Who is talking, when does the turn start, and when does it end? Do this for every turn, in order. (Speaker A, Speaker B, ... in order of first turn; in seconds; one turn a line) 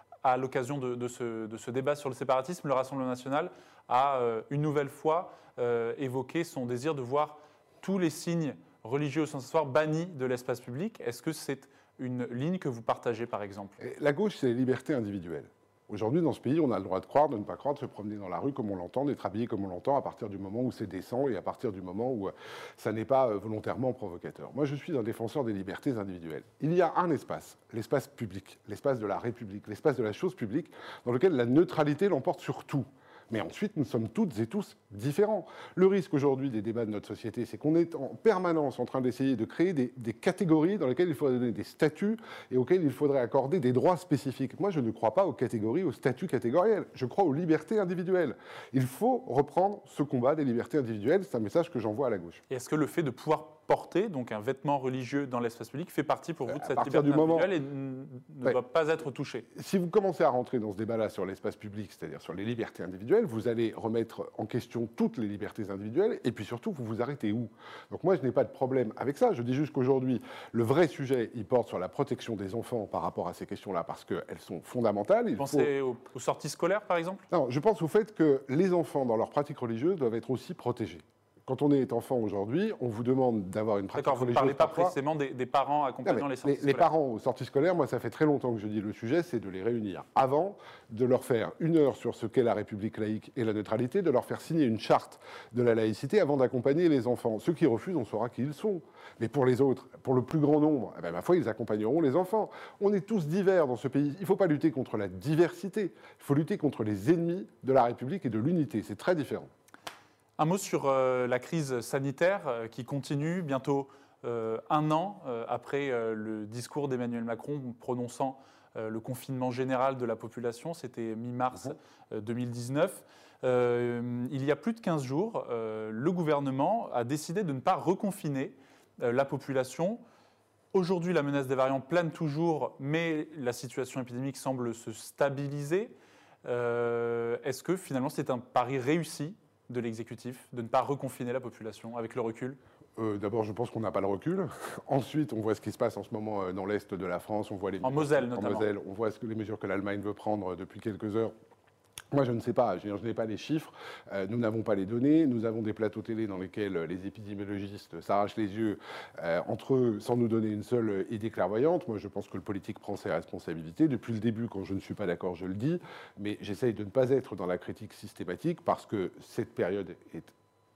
Speaker A: 0.2-13.8
Speaker B: 13.8-52.4
Speaker A: 52.5-59.5
Speaker B: 56.5-57.5
Speaker B: 59.5-75.7
Speaker A: 75.4-77.2
Speaker B: 77.3-85.0
Speaker A: 84.0-86.9
Speaker B: 86.0-109.5
Speaker A: 110.4-130.0
Speaker A: 130.7-142.6
Speaker B: 143.0-151.3
Speaker A: 147.8-148.7
Speaker B: 152.1-170.3